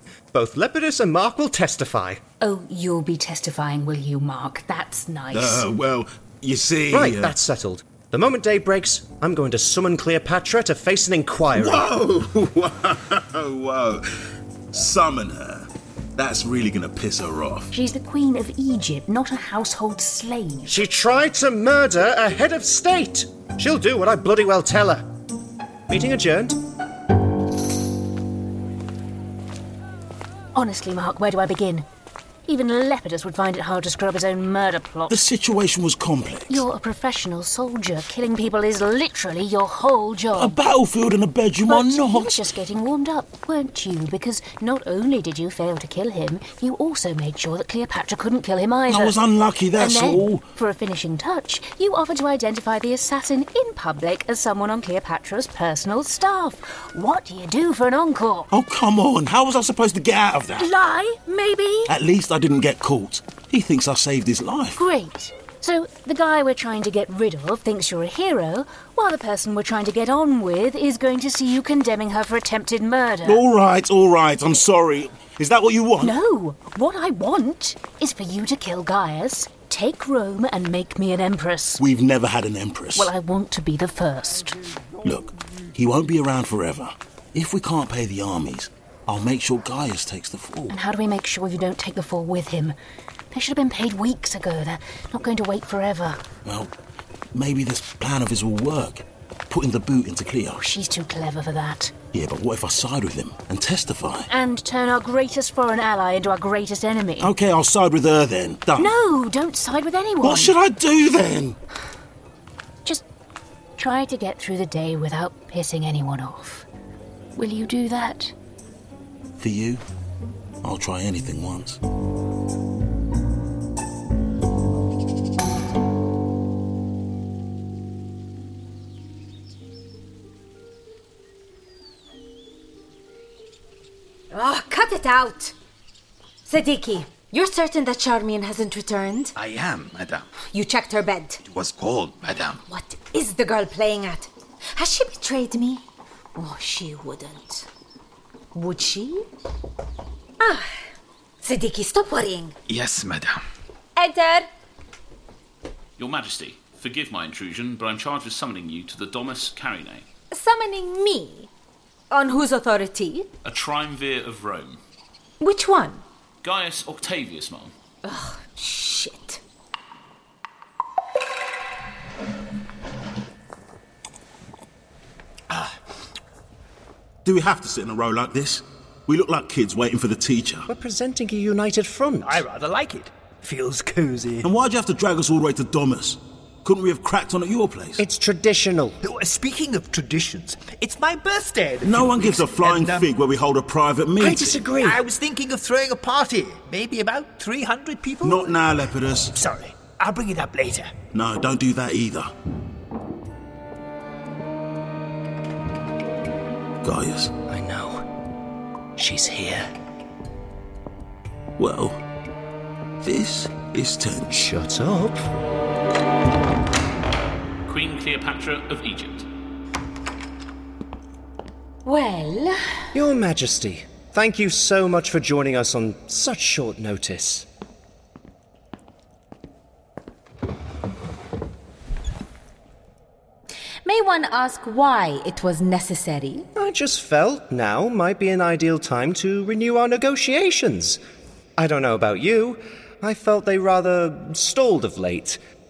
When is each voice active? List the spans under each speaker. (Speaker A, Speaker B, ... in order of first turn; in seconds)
Speaker A: 0.3-2.2, 6.9-11.9, 20.6-25.1, 25.9-26.6, 180.7-182.4, 188.0-189.0, 194.2-195.0, 207.5-208.0, 209.0-209.7, 214.3-215.3, 222.9-227.5, 236.6-241.0, 241.6-245.4
Speaker B: 2.4-5.7, 17.7-20.8, 30.5-31.9, 32.5-35.1, 36.5-40.6, 41.6-49.2, 49.7-58.5, 60.6-61.9, 64.8-73.4, 76.0-81.8, 83.0-84.6, 90.7-92.8, 93.3-96.2, 100.6-101.9, 104.3-107.3, 108.8-110.5, 113.8-116.7, 117.3-118.3
Speaker C: 5.3-7.3, 11.6-14.1, 14.7-17.7, 35.1-36.6, 40.3-42.4, 48.9-50.5, 58.5-60.7, 61.9-64.8, 73.2-76.1, 81.8-83.1, 85.0-90.8, 96.4-96.7, 97.3-100.6, 102.1-104.3, 107.2-108.9, 110.2-111.6, 119.4-119.8, 120.6-121.8, 177.2-180.7, 184.4-188.0, 191.8-194.7, 198.2-199.3, 201.1-202.3, 206.8-207.3, 211.6-212.0, 213.0-214.5
Speaker D: 134.3-135.5, 136.4-139.3, 140.5-141.4, 142.7-145.8, 146.4-147.7, 148.5-149.3, 150.4-150.8, 151.4-152.6, 153.9-154.5, 160.3-161.5, 162.1-163.3, 165.4-166.0, 168.0-169.4, 221.8-222.6, 233.8-236.5
Speaker E: 139.3-140.2, 141.4-142.6, 152.7-153.4
Speaker F: 156.0-160.1, 163.4-164.8, 166.4-167.7, 217.7-219.3
Speaker G: 182.2-184.4, 189.0-193.1, 194.8-198.6, 199.3-200.9